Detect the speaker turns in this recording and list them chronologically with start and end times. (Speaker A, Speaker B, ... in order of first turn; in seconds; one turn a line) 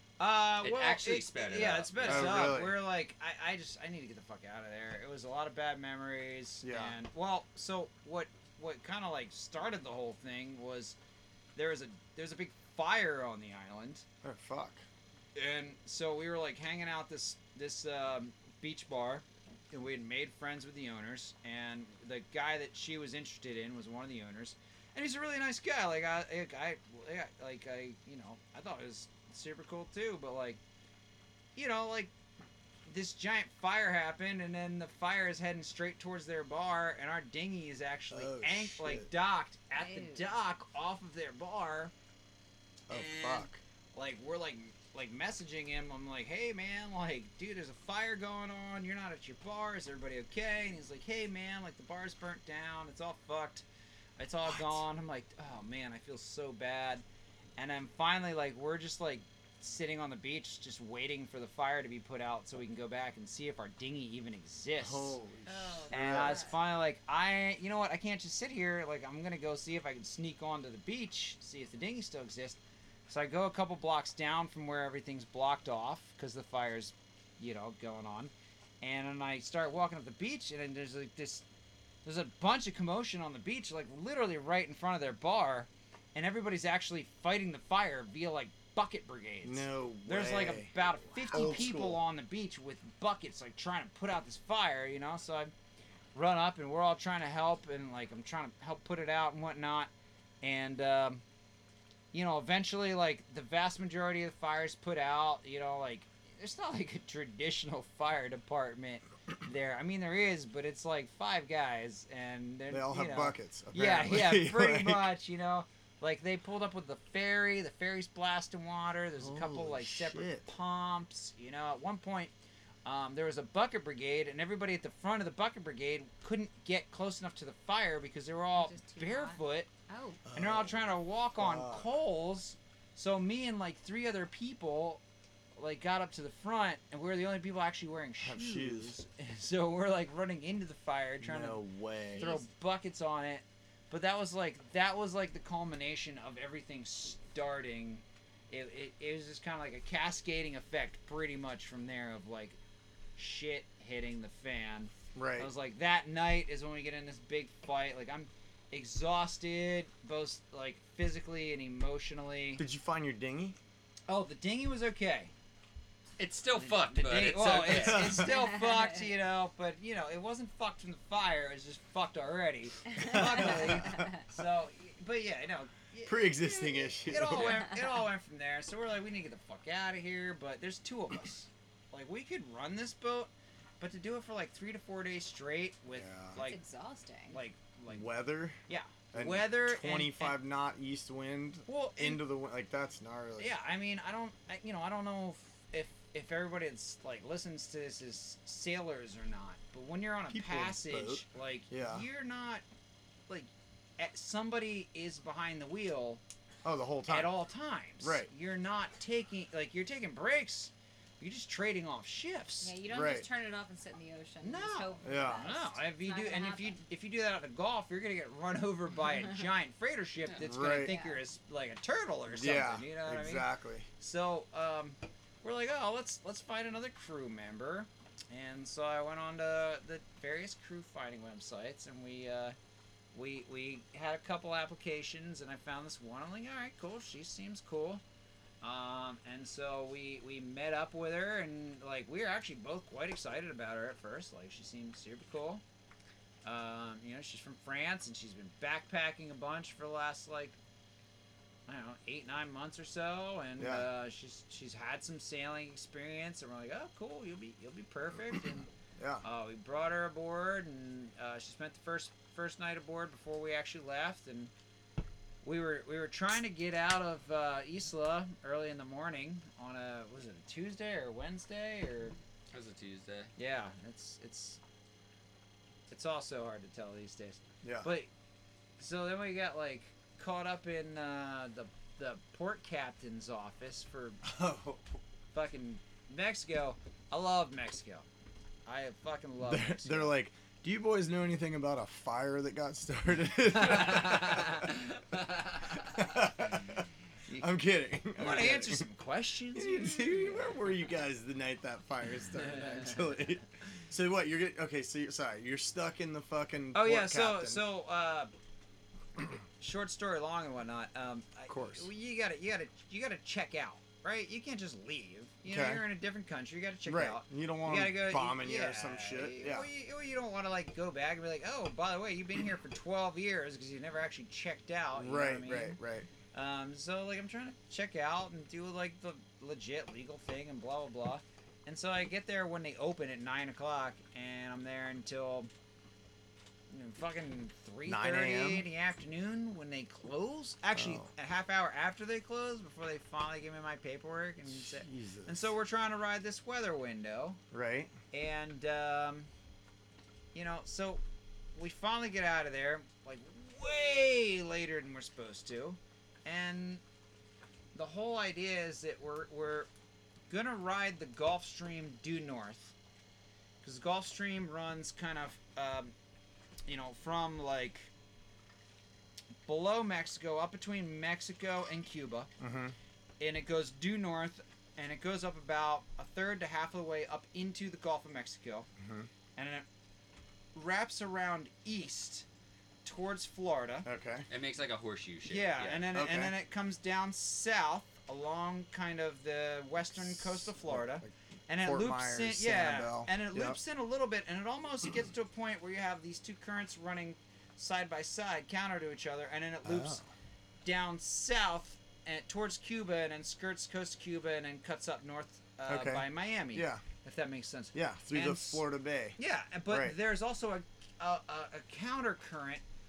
Speaker A: 0.2-11.0
Speaker B: 0.6-2.6
Speaker C: 2.0-2.8
Speaker C: 6.6-7.0
Speaker A: 11.5-14.0
Speaker C: 14.2-14.8
Speaker A: 15.3-30.6
Speaker A: 31.6-32.1
Speaker A: 32.9-41.9
Speaker C: 38.1-39.1
Speaker D: 39.8-40.3
Speaker C: 42.9-43.6
Speaker A: 42.9-53.6
Speaker A: 54.2-57.0
Speaker C: 54.4-54.8
Speaker A: 57.6-65.2
Speaker C: 64.8-66.5
Speaker D: 65.5-66.5
Speaker A: 65.9-81.4
Speaker A: 82.0-95.5
Speaker C: 89.4-90.7
Speaker D: 91.1-91.7
Speaker C: 91.3-92.0
Speaker A: 96.1-99.9
Speaker A: 100.4-101.2
Speaker A: 102.1-122.3
Speaker C: 112.7-115.1
Speaker C: 119.2-120.5
Speaker A: 122.8-129.7
Speaker D: 128.5-130.2
Speaker C: 130.2-131.9
Speaker A: 130.3-135.0
Speaker A: 135.6-141.6
Speaker C: 138.2-139.0
Speaker C: 141.2-142.3
Speaker D: 142.1-142.4
Speaker A: 142.2-152.6
Speaker A: 153.2-162.6
Speaker C: 155.1-155.5
Speaker C: 162.6-163.6
Speaker A: 164.1-165.3
Speaker B: 166.2-168.2
Speaker A: 166.6-186.6
Speaker C: 167.6-168.3
Speaker D: 168.3-169.0
Speaker D: 172.9-174.2
Speaker C: 172.9-174.4
Speaker C: 176.0-177.6
Speaker D: 177.4-177.9
Speaker C: 185.9-186.4
Speaker D: 186.4-187.4
Speaker A: 187.3-188.1
Speaker C: 187.9-188.6
Speaker A: 188.7-190.4
Speaker C: 189.1-193.6
Speaker A: 191.7-192.2
Speaker A: 193.4-202.6
Speaker C: 200.3-202.0
Speaker A: 203.3-206.2
Speaker C: 206.6-207.4
Speaker A: 207.1-212.7
Speaker C: 208.0-208.3
Speaker D: 212.6-216.8
Speaker C: 212.9-213.3
Speaker A: 214.4-223.5
Speaker C: 215.0-215.5
Speaker C: 220.4-220.9
Speaker D: 220.8-221.2
Speaker C: 222.3-223.9
Speaker A: 224.0-232.6
Speaker A: 233.1-238.0
Speaker A: 238.6-245.6
Speaker A: 246.4-250.6
Speaker A: 251.7-258.7
Speaker C: 253.6-253.8
Speaker C: 259.0-259.2
Speaker A: 259.2-264.5
Speaker A: 265.4-272.1
Speaker B: 272.5-273.3
Speaker A: 273.4-274.6
Speaker A: 275.9-278.1
Speaker C: 277.6-277.9
Speaker A: 278.8-284.2
Speaker C: 284.2-284.8
Speaker A: 285.3-288.1
Speaker A: 288.6-290.1
Speaker C: 289.4-294.7
Speaker A: 293.5-296.1
Speaker C: 295.8-296.9
Speaker C: 297.4-298.8
Speaker A: 298.1-300.3
Speaker C: 299.5-307.6
Speaker A: 306.7-308.3
Speaker A: 309.6-325.8
Speaker C: 311.5-311.9
Speaker C: 315.5-315.8
Speaker C: 316.9-319.6
Speaker C: 324.9-326.1
Speaker A: 326.3-335.5
Speaker A: 336.7-347.4
Speaker C: 337.8-338.7
Speaker C: 340.7-341.1
Speaker C: 344.5-345.5
Speaker C: 347.5-347.9
Speaker A: 348.1-349.3
Speaker A: 350.3-351.0
Speaker A: 351.6-356.8
Speaker A: 357.7-359.7
Speaker A: 360.3-362.7
Speaker A: 363.6-365.9
Speaker A: 366.7-367.9
Speaker A: 369.4-372.3
Speaker C: 372.4-372.7
Speaker A: 373.2-378.7
Speaker C: 378.8-379.1
Speaker A: 379.4-379.6
Speaker A: 380.5-382.2
Speaker A: 382.8-383.9
Speaker C: 383.8-384.3
Speaker B: 384.3-385.8
Speaker A: 385.3-400.0
Speaker C: 385.9-386.3
Speaker C: 390.0-393.6
Speaker C: 399.6-400.0
Speaker A: 400.6-408.6
Speaker C: 405.6-406.8
Speaker C: 407.7-409.1
Speaker A: 409.1-412.6
Speaker C: 409.7-409.9